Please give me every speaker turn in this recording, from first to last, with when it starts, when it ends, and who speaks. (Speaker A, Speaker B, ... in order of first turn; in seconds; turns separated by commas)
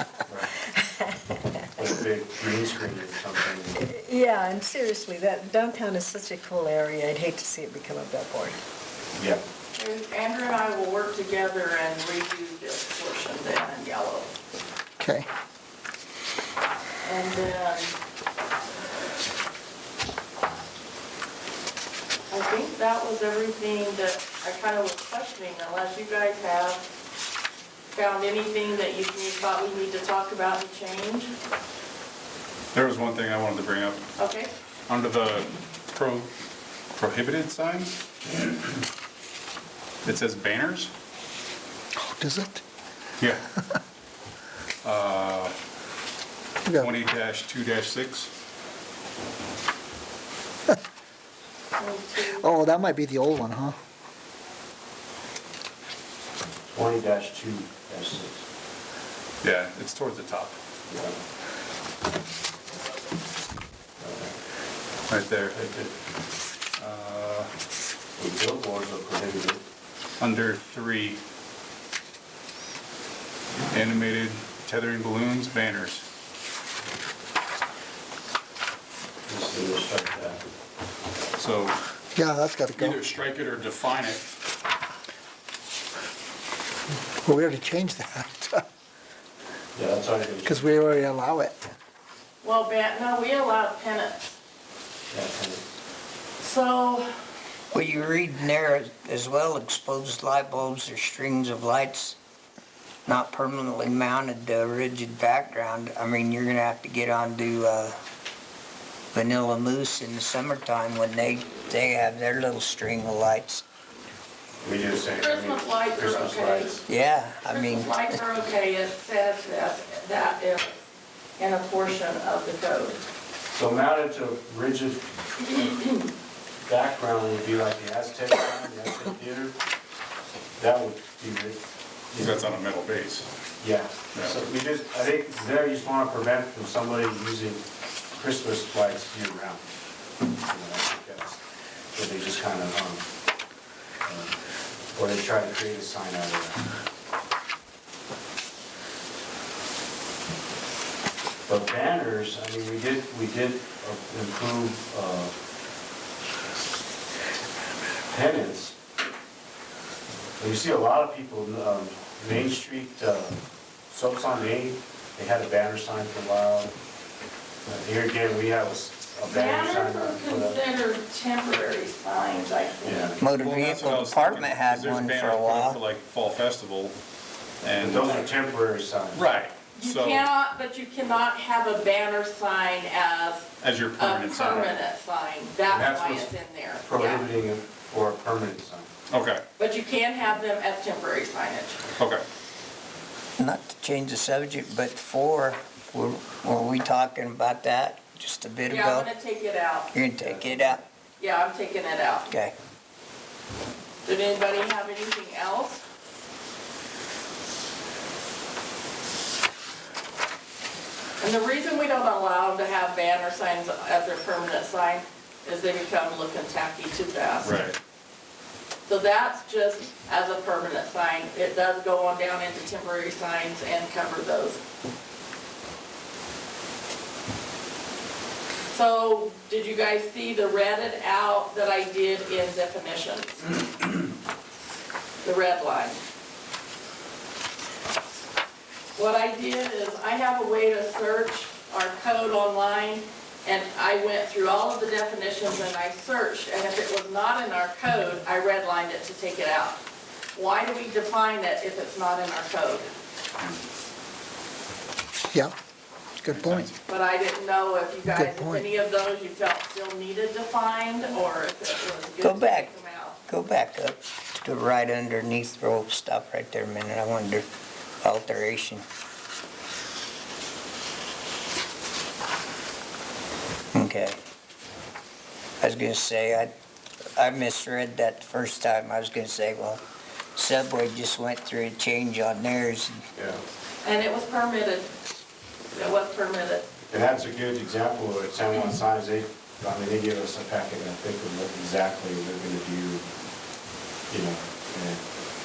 Speaker A: 0.8-1.9, Speaker B: 1.8-3.8, Speaker A: 3.8-8.6, Speaker B: 9.2-9.4, Speaker C: 9.8-14.4, Speaker D: 15.0-15.3, Speaker C: 17.0-17.9, Speaker C: 22.3-26.8, Speaker C: 27.9-31.3, Speaker E: 32.7-34.0, Speaker C: 34.2-34.5, Speaker E: 34.9-36.3, Speaker E: 37.0-38.5, Speaker E: 40.0-40.9, Speaker D: 42.0-42.6, Speaker E: 43.2-43.5, Speaker E: 44.8-45.5, Speaker D: 46.6-46.9, Speaker E: 46.7-48.3, Speaker C: 51.8-52.4, Speaker D: 52.4-53.8, Speaker B: 56.7-58.4, Speaker E: 59.4-60.5, Speaker B: 60.9-61.2, Speaker B: 64.0-64.3, Speaker E: 65.1-65.5, Speaker B: 65.5-65.9, Speaker E: 66.8-67.5, Speaker B: 68.2-69.6, Speaker E: 70.2-71.2, Speaker E: 73.7-76.0, Speaker B: 79.2-80.4, Speaker E: 81.3-81.8, Speaker D: 82.2-83.0, Speaker E: 82.7-84.3, Speaker D: 87.2-88.6, Speaker B: 89.7-90.6, Speaker D: 90.4-91.7, Speaker C: 92.4-94.3, Speaker B: 95.1-95.6, Speaker C: 96.4-97.1, Speaker F: 97.7-102.2, Speaker F: 103.0-108.0, Speaker F: 109.1-113.6, Speaker B: 114.6-116.8, Speaker C: 115.2-116.8, Speaker F: 116.9-118.0, Speaker C: 117.5-120.8, Speaker C: 121.4-123.0, Speaker B: 123.5-125.0, Speaker C: 125.5-125.9, Speaker B: 126.6-129.6, Speaker B: 130.6-132.4, Speaker E: 132.2-133.3, Speaker B: 133.6-137.6, Speaker B: 138.1-139.6, Speaker B: 140.4-141.4, Speaker B: 141.9-143.0, Speaker B: 144.0-144.3, Speaker B: 144.9-146.6, Speaker B: 151.5-155.3, Speaker B: 158.1-158.8, Speaker B: 160.4-163.4, Speaker B: 163.9-166.7, Speaker B: 167.7-170.6, Speaker C: 169.2-173.2, Speaker B: 172.8-173.2, Speaker F: 173.2-175.8, Speaker E: 173.4-176.9, Speaker E: 177.6-178.3, Speaker B: 177.7-179.3, Speaker E: 179.1-180.2, Speaker C: 179.8-187.2, Speaker E: 183.6-184.8, Speaker B: 185.7-186.3, Speaker B: 186.8-188.9, Speaker E: 189.1-189.4, Speaker C: 189.6-191.8, Speaker E: 192.0-192.2, Speaker F: 193.4-199.1, Speaker C: 198.7-199.9, Speaker F: 199.9-200.8, Speaker B: 200.2-200.7, Speaker C: 201.2-202.3, Speaker F: 202.3-202.5, Speaker C: 204.0-205.8, Speaker C: 211.2-217.6, Speaker E: 217.4-217.8, Speaker C: 218.8-224.6, Speaker C: 228.7-233.6, Speaker C: 235.2-236.0, Speaker C: 238.9-249.8, Speaker C: 250.3-252.9, Speaker D: 256.2-256.7, Speaker E: 256.3-256.7, Speaker C: 256.9-263.2, Speaker D: 258.1-258.6, Speaker F: 262.2-262.7, Speaker F: 263.3-267.5, Speaker F: 268.0-268.8, Speaker F: 273.7-274.2, Speaker F: 275.6-276.5, Speaker F: 277.2-279.8, Speaker F: 280.4-283.0, Speaker B: 283.1-283.4, Speaker C: 283.8-284.9, Speaker C: 285.7-286.7, Speaker B: 286.9-293.0, Speaker B: 294.1-295.0